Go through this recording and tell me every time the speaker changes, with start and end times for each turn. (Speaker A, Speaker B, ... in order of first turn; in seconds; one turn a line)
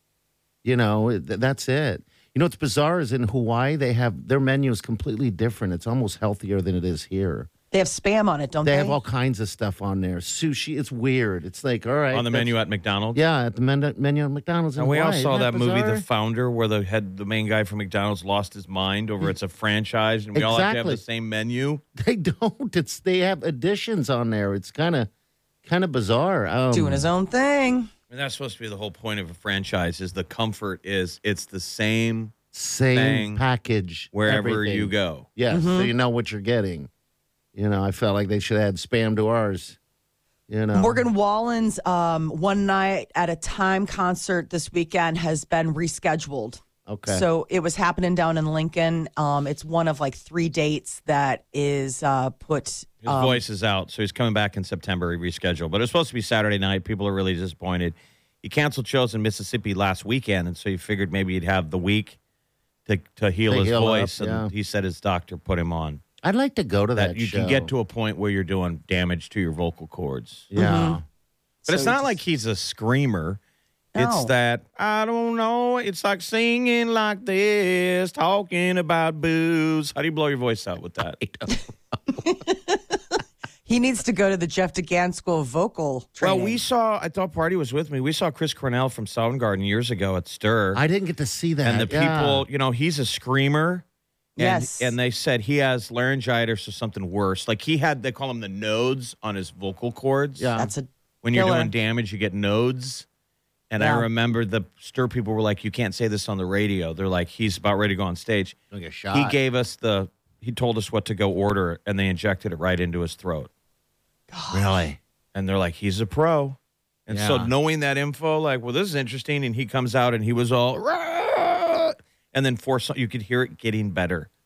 Speaker A: 0.6-7.5
Speaker B: 7.7-9.0
Speaker A: 8.6-12.5
Speaker C: 12.1-13.2
Speaker A: 13.1-16.0
Speaker C: 14.8-21.8
Speaker A: 20.3-21.0
Speaker A: 21.9-25.1
Speaker A: 25.6-27.1
Speaker B: 26.7-27.9
Speaker C: 28.1-32.3
Speaker A: 32.5-36.9
Speaker C: 32.9-33.4
Speaker C: 34.1-35.3
Speaker B: 35.5-35.9
Speaker A: 37.5-39.8
Speaker A: 40.5-41.0
Speaker B: 40.7-53.4
Speaker A: 46.9-47.2
Speaker C: 53.0-62.2
Speaker C: 62.9-66.0
Speaker A: 63.5-64.5
Speaker A: 66.2-67.7
Speaker C: 67.0-70.5
Speaker A: 70.5-71.0
Speaker B: 70.5-71.0
Speaker C: 71.7-73.4
Speaker B: 71.7-72.1
Speaker B: 73.9-74.3
Speaker C: 74.0-81.2
Speaker A: 81.2-81.5
Speaker B: 82.1-83.0
Speaker B: 83.7-86.6
Speaker C: 86.2-90.8
Speaker A: 90.7-92.5
Speaker C: 91.6-93.8
Speaker B: 94.4-94.9
Speaker C: 94.4-100.5
Speaker A: 100.4-100.7
Speaker B: 100.6-101.7
Speaker C: 101.2-103.0
Speaker C: 103.7-108.5
Speaker B: 103.8-104.1
Speaker A: 108.7-109.4
Speaker C: 109.1-113.5
Speaker B: 114.3-114.8
Speaker A: 114.5-115.0
Speaker C: 115.3-124.3
Speaker A: 117.1-117.5